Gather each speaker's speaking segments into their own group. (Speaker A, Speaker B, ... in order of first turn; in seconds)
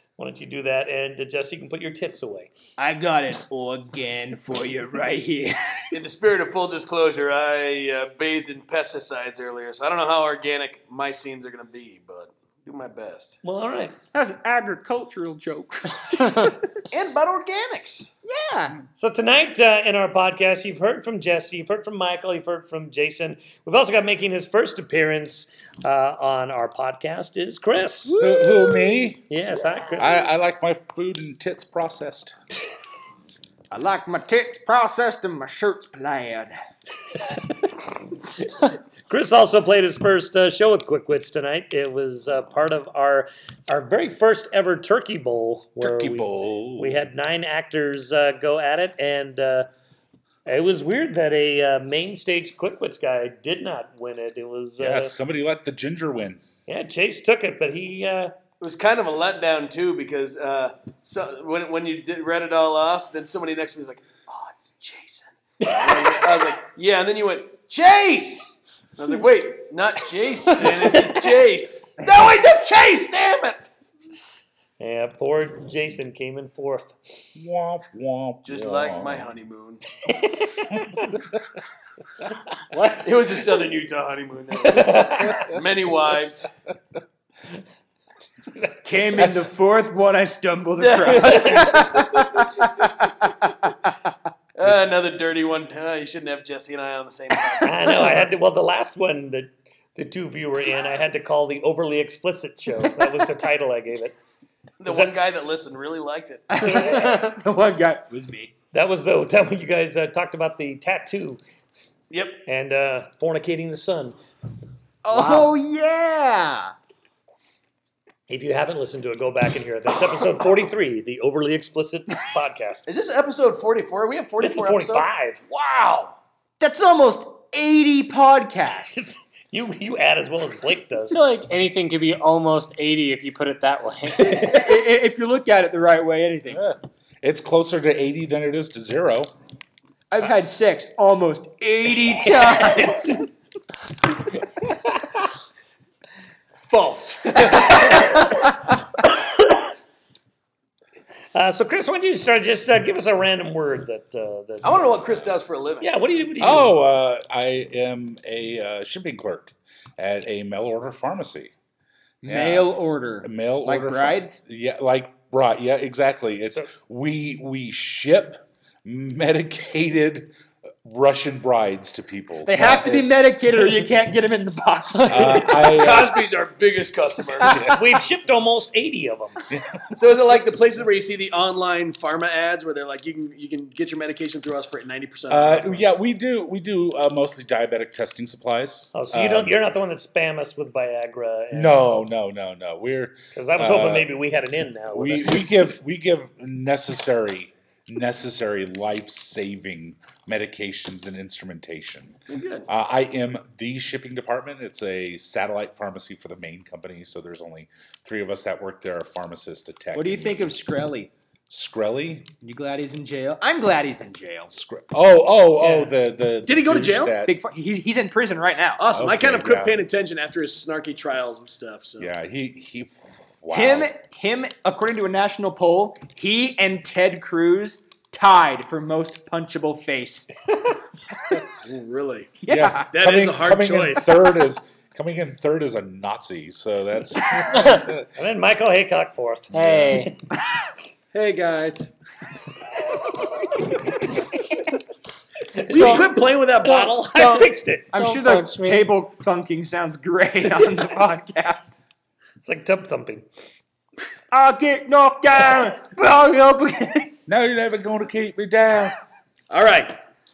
Speaker A: 0.2-2.5, 13.4-14.0, 19.0-28.2, 29.3-30.2, 38.6-49.7, 50.5-55.1, 56.7-58.4, 65.6-66.4, 70.7-71.3, 74.8-77.0, 84.6-85.5, 91.0-91.9, 97.6-104.2, 104.8-105.1, 108.7-111.4, 112.5-114.2, 115.1-115.5, 118.3-122.8, 124.4-125.7, 128.9-131.2, 142.3-143.1, 144.7-145.0, 151.3-156.8, 177.7-179.4, 188.9-191.8, 193.3-195.7, 238.0-240.1, 245.6-246.1, 246.6-247.9, 252.4-253.3
Speaker B: 2.8-5.5, 14.1-16.6, 18.2-18.8, 28.1-28.9, 33.7-36.5, 88.8-93.7, 106.5-108.5, 115.0-116.7, 126.6-129.1, 134.2-136.7, 140.1-143.2, 162.2-164.4, 172.4-175.8, 177.4-177.8, 209.9-211.1, 212.4-214.5, 215.6-215.9, 217.2-218.9, 223.5-230.3, 232.4-233.2, 247.9-251.8, 254.3-257.1
Speaker C: 5.9-13.4, 16.9-18.1, 58.6-73.7, 78.5-79.8, 83.0-86.5, 90.8-92.6, 94.5-98.1, 104.8-106.7, 112.1-112.4, 122.9-125.1, 125.7-126.1, 146.7-148.3, 154.6-155.9, 175.6-177.6, 179.9-185.8, 202.3-202.7, 216.4-217.2, 218.8-222.1, 231.4-232.3, 232.9-234.1, 241.1-241.9, 245.7-247.4, 259.5-260.0
Speaker D: 28.2-29.2, 30.0-32.4, 45.8-47.0, 54.8-56.4, 77.4-79.3, 80.9-81.2, 89.2-89.4, 136.5-139.3, 156.4-161.5, 162.3-170.3, 170.8-173.1, 175.1-176.2, 177.4-177.8, 179.5-179.8, 185.3-189.6, 191.5-194.1, 194.9-202.2, 202.7-210.6, 211.5-212.3, 214.5-217.3, 218.9-219.8, 222.0-223.9, 232.5-238.1, 239.5-240.1, 257.3-258.9
Speaker E: 82.7-83.1, 106.9-107.3, 131.1-134.6, 237.5-237.9, 239.5-240.1, 245.7-246.1, 246.6-248.9